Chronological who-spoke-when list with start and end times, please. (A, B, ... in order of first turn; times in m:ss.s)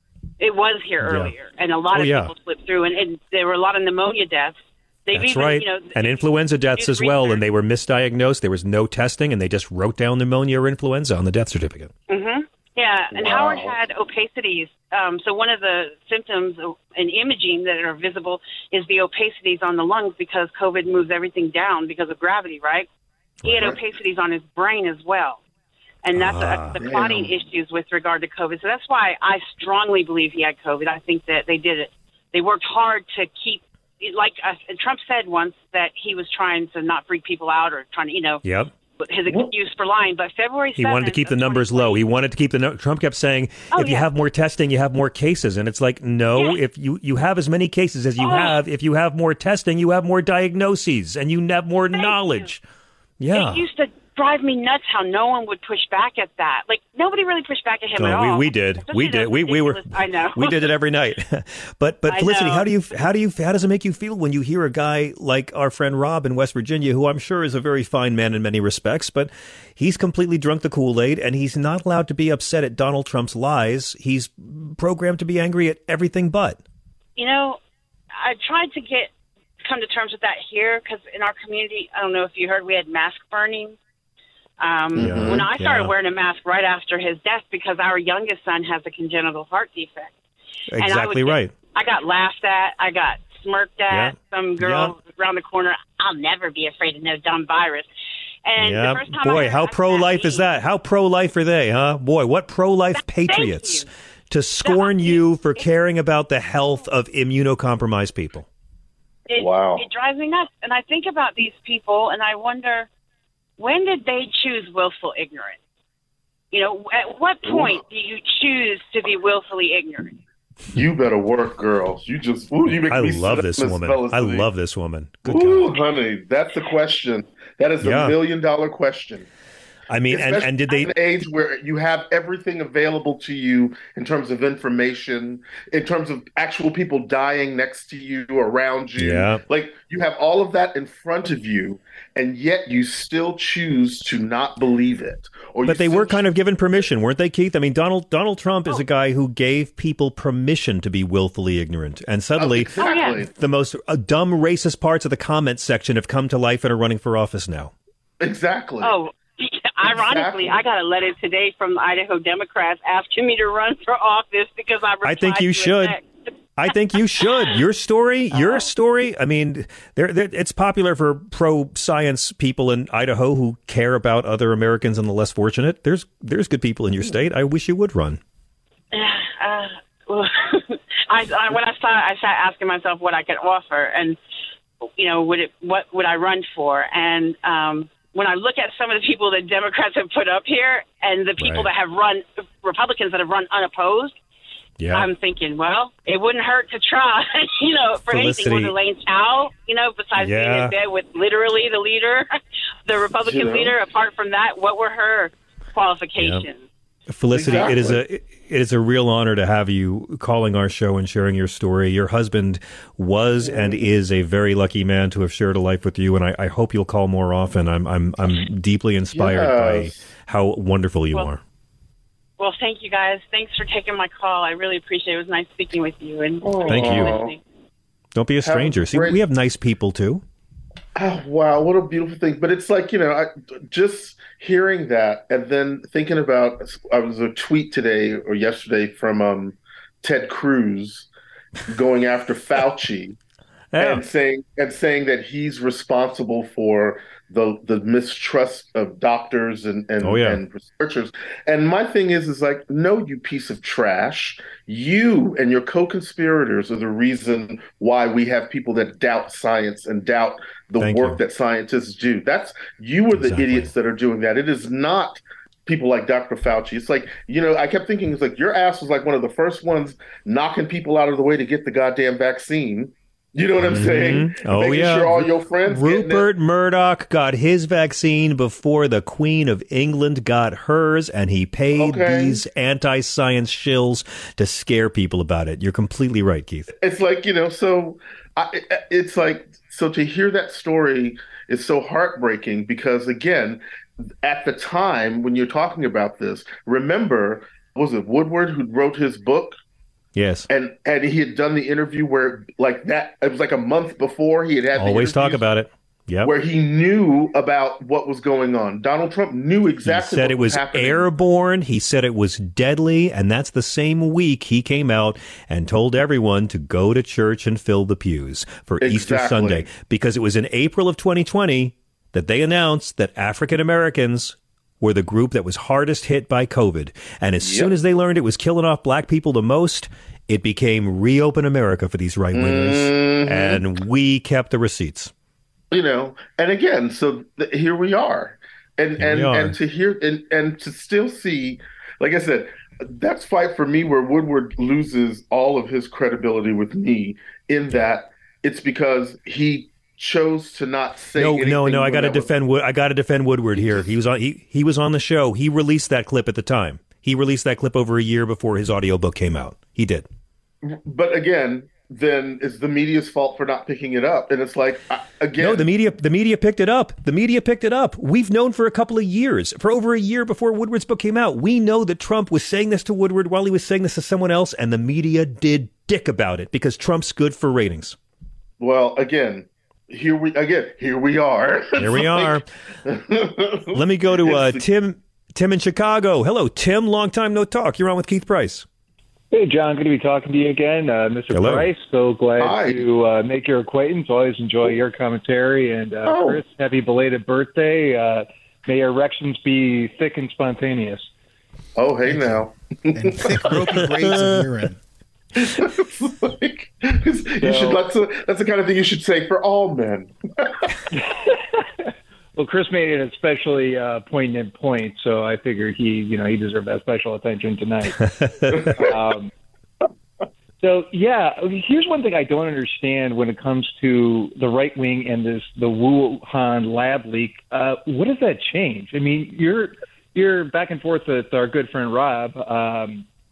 0:00.4-0:07.4 A
0:01.0-0:01.3 B
0:01.9-0:02.3 B
0:05.1-0:11.9 B
0:12.1-0:22.9 A
0:13.1-0:13.8 C
0:23.4-0:23.7 B
0:23.4-0:25.4 A
0:23.5-0:23.8 C
0:26.0-0:38.4 A
0:26.1-0:26.8 B
0:26.8-0:27.4 C
0:38.4-0:38.7 B
0:39.0-0:42.0 A
0:40.8-0:52.6 B
0:43.7-0:44.0 A
0:46.3-0:46.6 A
0:48.2-0:48.6 A
0:51.9-0:52.5 A
0:53.2-0:53.6 B
0:53.3-1:00.7 A
0:58.0-1:16.6 B
1:02.0-1:02.7 A
1:17.2-1:17.6 A
1:18.2-1:19.1 A
1:19.6-1:23.8 A
1:24.6-1:30.1 A
1:24.9-1:25.5 C
1:25.0-1:25.9 B
1:30.7-1:31.5 B
1:30.8-1:37.9 A
1:33.9-1:34.9 B
1:38.4-1:40.5 A
1:38.6-1:48.4 B
1:42.9-1:43.9 A
1:44.6-1:45.7 A
1:49.3-1:52.9 A
1:49.3-1:49.9 C
1:53.6-1:55.6 A
1:56.5-2:00.2 A
1:57.4-1:57.8 C
2:00.7-2:04.5 C
2:02.8-2:05.8 B
2:05.2-2:09.3 C
2:07.8-2:08.2 B
2:09.9-2:10.9 B
2:10.1-2:26.2 C
2:19.0-2:19.4 B
2:25.6-2:32.8 B
2:32.4-2:33.3 C
2:32.8-2:33.2 A
2:33.3-2:37.7 B
2:38.2-2:39.0 C
2:38.8-2:46.1 A
2:39.9-2:40.6 C
2:45.0-2:46.0 B
2:46.6-2:58.2 B
2:46.7-2:47.5 A
2:48.3-2:48.7 A
2:58.9-3:04.2 A
3:05.0-3:14.1 A
3:11.4-3:11.7 B
3:14.8-3:15.1 B
3:14.9-3:22.3 A
3:18.1-3:18.7 B
3:20.2-3:20.7 B
3:22.8-3:26.6 A
3:23.2-3:23.7 C
3:26.2-3:26.4 B
3:27.1-3:41.4 B
3:27.3-3:28.0 C
3:33.4-3:33.9 C
3:39.1-3:40.0 C
3:42.4-3:47.4 A
3:46.4-3:47.4 C
3:46.6-3:47.2 B
3:48.1-3:50.2 B
3:48.4-3:49.2 C
3:51.0-4:01.1 C
4:01.7-4:03.2 C
4:03.7-4:04.0 B
4:03.8-4:36.3 C
4:10.0-4:10.4 B
4:20.8-4:21.2 B
4:23.1-4:23.7 B
4:33.6-4:46.7 B
4:41.7-4:42.4 C
4:46.8-4:53.6 C
4:54.2-4:59.6 C
5:00.1-5:00.5 B
5:00.5-5:05.5 C
5:04.7-5:06.3 B
5:06.2-5:11.1 C
5:09.8-5:35.1 B
5:18.8-5:19.7 C
5:27.4-5:27.7 C
5:32.3-5:33.6 C
5:35.7-5:52.3 C
5:39.0-5:39.6 B
5:51.1-6:00.1 B
5:53.6-5:53.9 C
6:00.6-6:05.7 C
6:05.4-6:18.0 B
6:18.6-6:24.6 C
6:21.8-6:22.4 B
6:23.7-6:28.6 B
6:29.3-6:41.1 D
6:31.3-6:31.7 B
6:32.4-6:32.8 C
6:36.0-6:36.4 C
6:41.8-6:43.8 C
6:42.1-6:42.4 E
6:42.9-6:44.8 E
6:43.7-6:44.4 B
6:45.4-6:50.7 C
6:47.4-6:47.8 D
6:50.9-6:51.6 D
6:52.4-6:58.0 D
6:58.0-6:58.7 B
6:58.5-6:58.9 C
6:58.8-6:59.3 D
7:00.6-7:13.0 D